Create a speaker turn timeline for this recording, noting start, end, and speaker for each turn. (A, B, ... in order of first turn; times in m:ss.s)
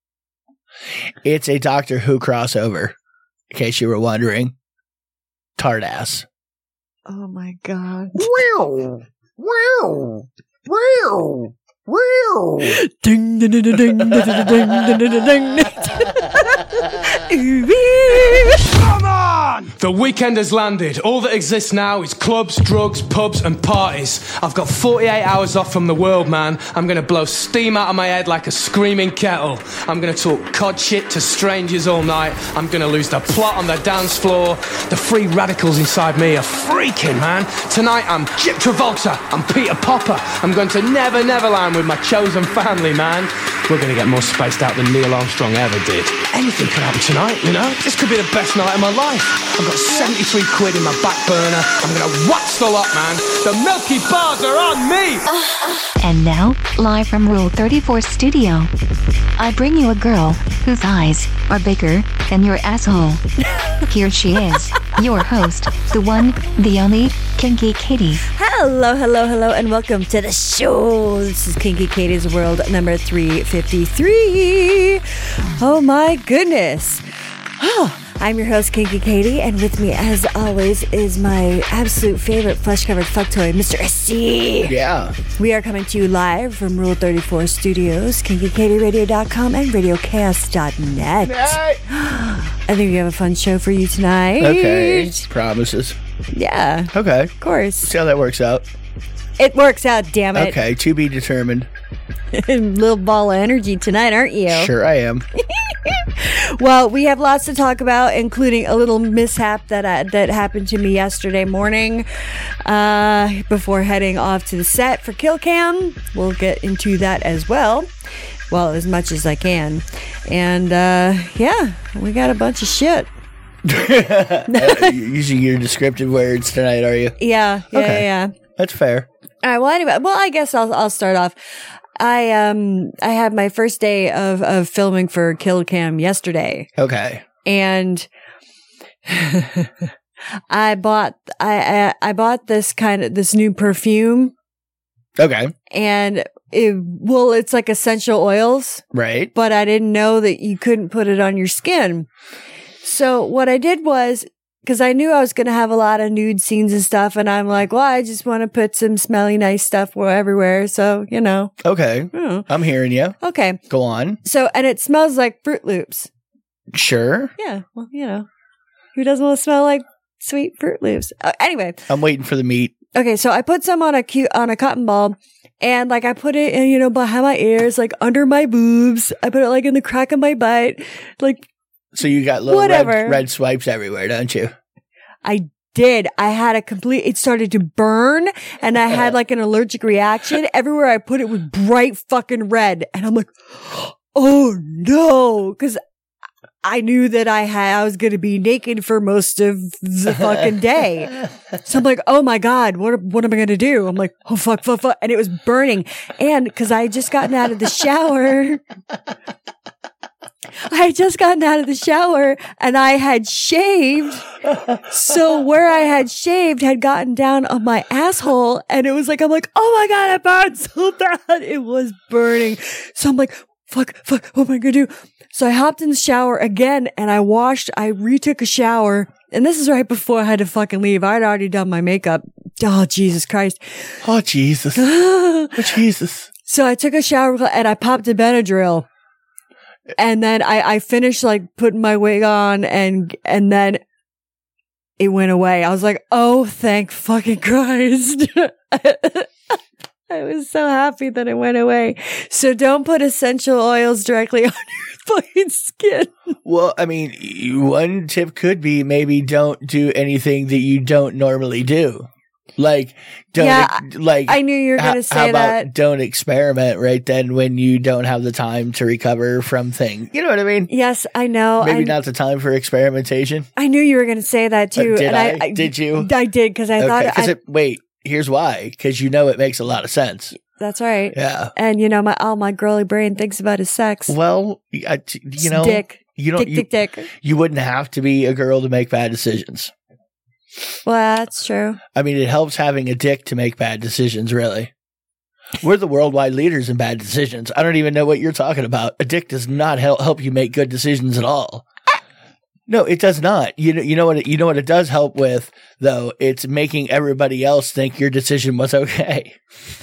0:01.2-0:03.0 A
0:03.5-0:04.5 A
0:05.6-0:06.2 A
0:07.1-0:08.3 B
0:08.2-0:12.8 C
0:12.6-0:18.6 B
0:18.6-0:55.3 D
0:56.0-0:58.7 E
0:59.4-1:03.2 E
1:03.8-1:08.2 E
1:08.3-1:15.0 B
1:15.6-1:17.0 B
1:17.6-1:24.8 B
1:24.6-1:25.2 A
1:25.4-1:35.2 B
1:31.2-1:31.8 A
1:34.4-1:36.0 A
1:36.3-1:37.9 B
1:36.9-1:38.7 A
1:39.4-1:40.6 B
1:40.3-1:41.7 A
1:42.3-1:44.7 B
1:44.5-1:45.2 A
1:45.4-1:57.9 B
1:58.5-2:03.1 B
2:03.6-2:07.2 A
2:04.5-2:05.0 B
2:07.2-2:08.3 B
2:07.7-2:09.1 A
2:09.4-2:11.3 B
2:12.0-2:16.7 B
2:16.8-2:17.2 A
2:17.4-2:18.1 B
2:19.1-2:19.9 B
2:20.5-2:24.3 B
2:25.2-2:25.5 A
2:25.7-2:32.1 B
2:28.9-2:29.3 A
2:32.8-2:41.5 B
2:41.6-2:43.2 A
2:42.1-2:42.5 B
2:43.2-2:43.6 B
2:43.7-2:44.2 A
2:44.2-2:46.1 B
2:46.7-2:47.3 A
2:47.4-2:48.2 B
2:49.0-2:51.8 B
2:51.9-2:52.7 A
2:52.9-3:01.4 B
3:01.9-3:04.5 A
3:02.4-3:03.2 B
3:05.2-3:15.8 B
3:16.6-3:28.6 B
3:30.7-3:34.2 B
3:34.8-3:54.0 B
3:54.0-3:54.9 A
3:54.8-3:55.8 B
3:55.5-3:56.3 A
3:56.4-3:58.8 B
4:00.0-4:03.8 B
4:05.0-4:09.6 B
4:10.1-4:16.3 B
4:16.4-4:30.7 A
4:23.4-4:25.7 B
4:30.7-4:32.0 B
4:31.6-4:33.5 A
4:33.6-4:37.4 B
4:34.8-4:36.1 A
4:36.8-4:40.3 A
4:40.5-4:44.2 B
4:41.1-4:41.5 A
4:44.1-4:49.7 A
4:45.4-4:47.1 B
4:50.8-4:51.8 B
4:51.9-4:54.7 A
4:55.6-5:01.7 A
5:02.7-5:09.4 A